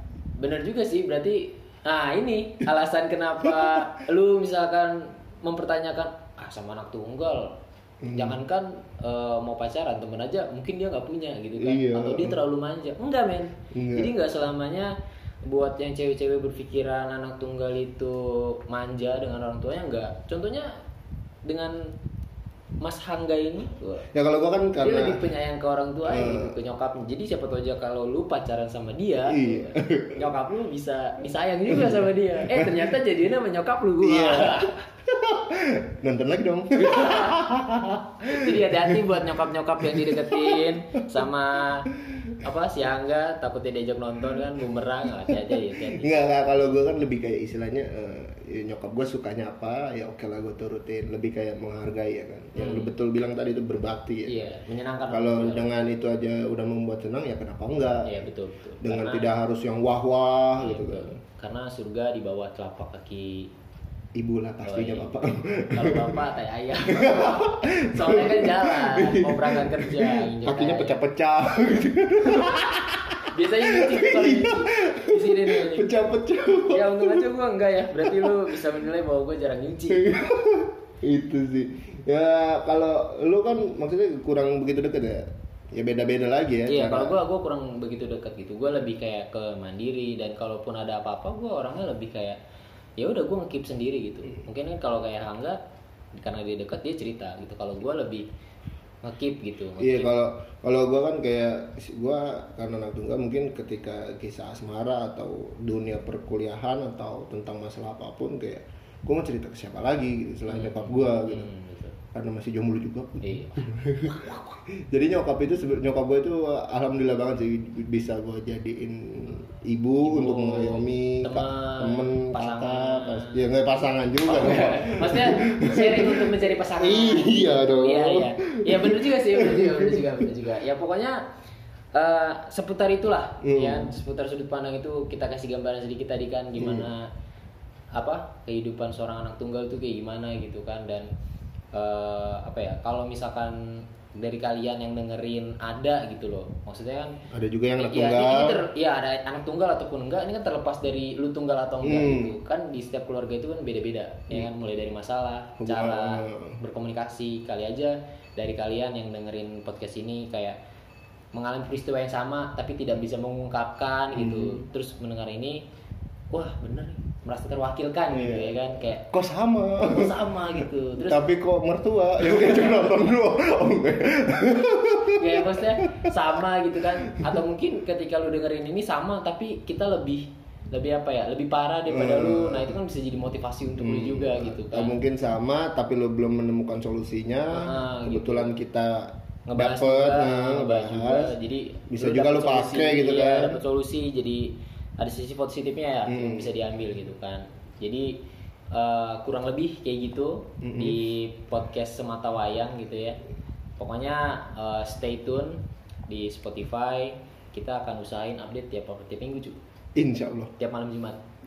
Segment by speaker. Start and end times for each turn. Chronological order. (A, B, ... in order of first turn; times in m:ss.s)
0:00.4-0:07.6 A
0:03.4-0:03.9 B
0:08.0-0:08.4 B
0:08.1-0:20.7 A
0:11.6-0:12.4 B
0:13.7-0:14.1 B
0:21.4-0:21.9 A
0:22.8-0:24.1 A
0:24.1-0:25.3 B
0:24.8-0:34.8 A
0:26.1-0:26.6 B
0:29.2-0:30.3 B
0:31.7-0:32.9 B
0:34.0-0:39.1 B
0:36.8-0:37.5 A
0:38.2-0:46.5 A
0:39.8-0:40.7 B
0:45.3-0:54.6 B
0:52.6-0:52.9 A
0:54.3-0:55.7 A
0:55.1-0:58.2 B
0:58.0-0:59.3 A
0:58.8-1:01.2 B
1:00.6-1:03.5 A
1:04.2-1:06.2 B
1:04.6-1:11.0 A
1:06.8-1:17.3 B
1:13.3-1:15.9 A
1:16.6-1:20.1 A
1:18.0-1:18.6 B
1:19.9-1:27.2 B
1:26.7-1:32.4 A
1:33.0-1:35.6 A
1:36.2-1:38.3 A
1:39.0-1:40.1 A
1:39.8-1:51.5 B
1:50.5-1:52.0 A
1:52.1-2:10.3 B
1:53.2-1:53.7 A
2:00.0-2:03.5 A
2:04.2-2:11.2 A
2:12.0-2:17.1 A
2:13.4-2:13.9 B
2:16.6-2:16.9 B
2:18.0-2:21.1 A
2:21.7-2:27.2 A
2:27.3-2:28.6 B
2:27.8-2:40.6 A
2:31.8-2:32.4 B
2:35.6-2:36.6 B
2:41.3-2:45.6 A
2:44.1-2:44.6 B
2:46.3-2:49.1 A
2:48.1-2:56.2 B
2:49.8-2:51.2 A
2:52.3-2:52.9 A
2:55.2-3:05.0 A
2:57.1-2:57.4 B
3:01.9-3:02.8 B
3:03.8-3:11.4 B
3:07.5-3:08.5 A
3:09.5-3:18.2 A
3:11.9-3:13.6 B
3:16.1-3:16.6 B
3:18.7-3:23.2 A
3:20.6-3:21.0 B
3:23.8-3:29.6 A
3:30.0-3:30.5 B
3:30.6-3:31.2 A